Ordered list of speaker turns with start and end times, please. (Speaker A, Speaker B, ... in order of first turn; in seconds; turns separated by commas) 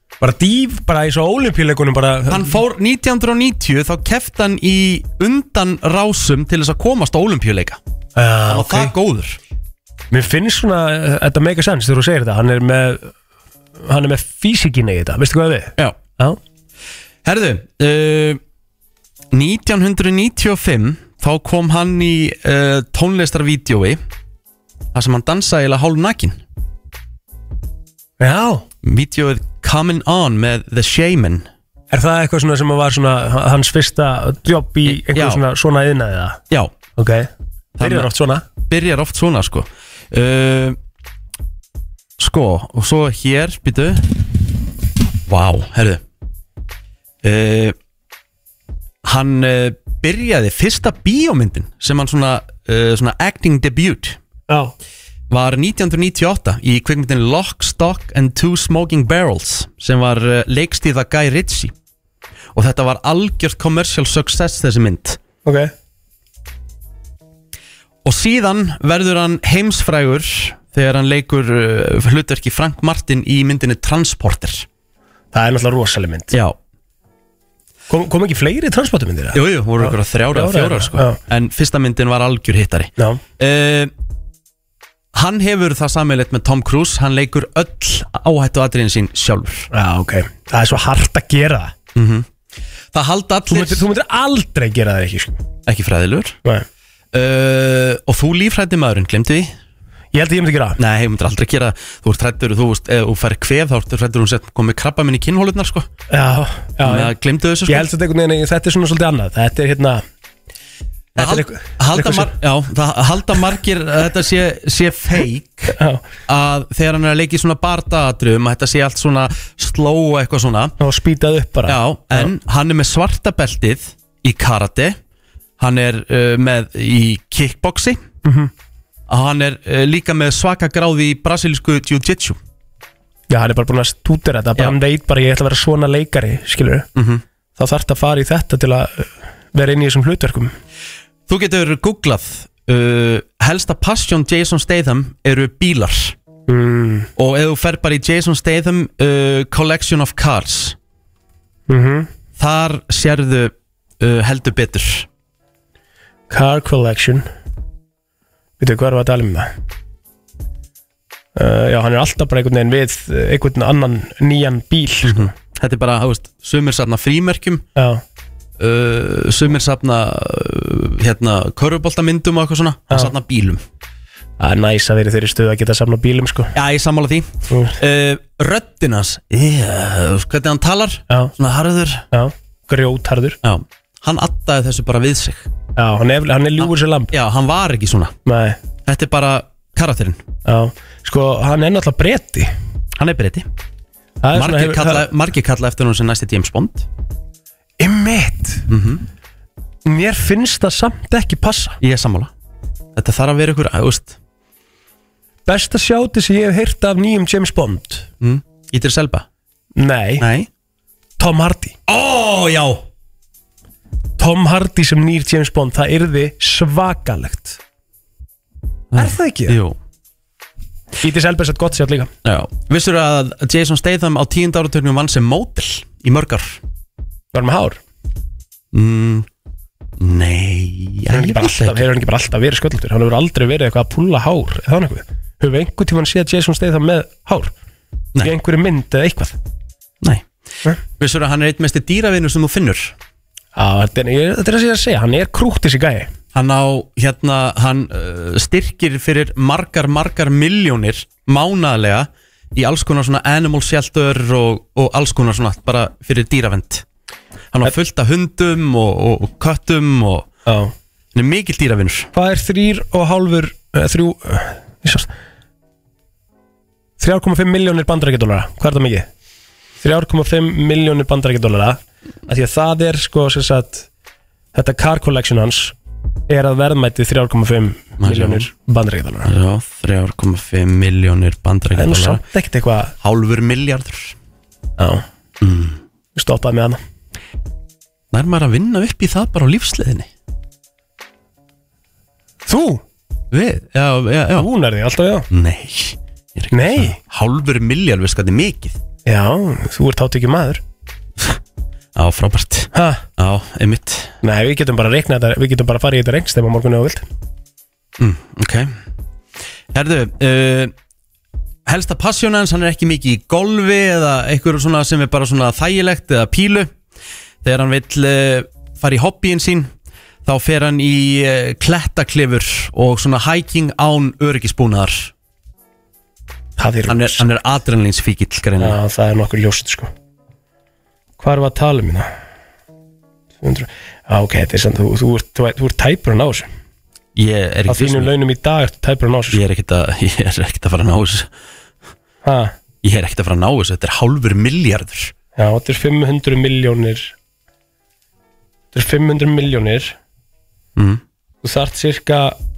Speaker A: 0.2-2.5, Speaker B: 2.3-7.8, Speaker A: 8.2-8.9, Speaker B: 8.5-9.4, Speaker A: 10.1-13.1, Speaker A: 13.8-16.4, Speaker B: 17.2-18.4, Speaker B: 19.3-24.0, Speaker B: 24.9-26.4, Speaker A: 28.2-28.6, Speaker B: 28.8-31.5, Speaker A: 31.9-36.4, Speaker B: 34.8-35.4, Speaker B: 36.5-36.7, Speaker A: 37.0-38.4, Speaker B: 37.8-40.8, Speaker B: 42.2-44.1, Speaker B: 45.3-46.0, Speaker B: 47.2-47.7, Speaker B: 49.0-54.2, Speaker A: 54.5-54.7, Speaker B: 55.3-61.7, Speaker B: 62.5-65.2, Speaker A: 65.4-65.7, Speaker B: 68.0-74.7, Speaker A: 75.3-76.3, Speaker B: 76.3-76.6, Speaker A: 77.9-81.2, Speaker B: 79.3-83.9, Speaker B: 85.1-89.7, Speaker A: 89.7-91.7, Speaker B: 91.9-92.3, Speaker B: 92.9-93.8, Speaker A: 93.5-95.4, Speaker B: 95.7-96.3, Speaker B: 97.1-99.5, Speaker A: 100.1-100.8, Speaker B: 100.8-105.9, Speaker A: 106.1-107.1, Speaker B: 106.8-107.9, Speaker A: 107.7-110.0, Speaker A: 111.2-112.3, Speaker B: 111.2-120.7, Speaker A: 115.7-116.0, Speaker A: 120.8-122.3, Speaker B: 121.7-125.0, Speaker B: 125.6-128.0, Speaker A: 128.2-128.5, Speaker B: 129.1-132.4, Speaker A: 133.3-136.9, Speaker B: 136.9-137.2, Speaker A: 137.6-140.5, Speaker B: 141.3-146.1, Speaker A: 146.5-147.1, Speaker B: 147.2-150.8, Speaker A: 151.7-152.1, Speaker B: 152.4-155.1, Speaker A: 156.3-157.2, Speaker A: 158.6-159.5, Speaker A: 161.3-165.3, Speaker B: 165.0-167.6, Speaker A: 167.8-168.0, Speaker B: 168.6-173.6, Speaker A: 174.4-176.5, Speaker B: 176.5-182.0, Speaker A: 177.5-177.8, Speaker A: 182.1-183.4, Speaker B: 183.4-185.5, Speaker A: 185.8-187.1, Speaker B: 186.6-188.1, Speaker A: 188.2-188.6, Speaker B: 188.8-190.2, Speaker A: 190.4-192.5, Speaker B: 192.9-193.4, Speaker A: 194.2-195.1, Speaker B: 194.3-196.9, Speaker A: 197.8-198.7, Speaker B: 198.7-199.0, Speaker A: 199.8-201.8, Speaker B: 201.8-202.3, Speaker B: 202.9-204.2, Speaker A: 205.4-208.1, Speaker B: 208.2-209.2, Speaker A: 209.8-210.2, Speaker B: 210.2-210.5, Speaker A: 211.2-211.8, Speaker B: 211.9-212.8, Speaker A: 214.2-217.6, Speaker B: 218.9-219.8, Speaker A: 218.9-219.6, Speaker A: 221.0-222.1, Speaker B: 222.2-226.6, Speaker A: 227.3-227.8, Speaker B: 228.7-229.3, Speaker B: 230.0-231.9, Speaker A: 231.1-237.5, Speaker A: 238.2-239.3, Speaker B: 240.0-240.2, Speaker B: 241.0-242.9, Speaker A: 243.6-246.1, Speaker B: 246.3-256.8, Speaker B: 257.5-260.3, Speaker A: 260.4-260.7, Speaker B: 261.1-262.1, Speaker A: 262.1-265.1, Speaker A: 267.0-269.1, Speaker A: 269.8-273.9, Speaker A: 274.5-275.7, Speaker A: 276.3-279.3, Speaker B: 278.0-278.5, Speaker B: 279.2-282.2, Speaker A: 281.7-282.9, Speaker B: 283.0-284.1, Speaker A: 284.8-285.0, Speaker B: 285.4-285.8, Speaker A: 286.1-286.8, Speaker B: 288.1-290.1, Speaker A: 292.4-292.8, Speaker B: 293.3-294.5, Speaker A: 294.4-295.3, Speaker B: 295.3-298.8, Speaker A: 296.5-297.0, Speaker A: 299.1-300.6, Speaker B: 301.9-304.1, Speaker A: 302.7-303.0, Speaker A: 304.2-307.0, Speaker B: 308.0-308.7, Speaker B: 309.7-310.7, Speaker B: 311.6-316.7, Speaker B: 317.4-319.7, Speaker B: 320.2-325.1, Speaker A: 326.6-327.3, Speaker B: 326.9-328.8, Speaker A: 328.6-329.9, Speaker A: 331.2-332.1, Speaker A: 333.4-336.5, Speaker B: 337.1-338.1, Speaker A: 337.7-339.4, Speaker B: 339.3-341.3, Speaker A: 342.2-342.5, Speaker B: 342.8-345.1, Speaker A: 345.4-347.1, Speaker A: 348.7-349.9, Speaker B: 350.8-351.0, Speaker A: 351.4-352.4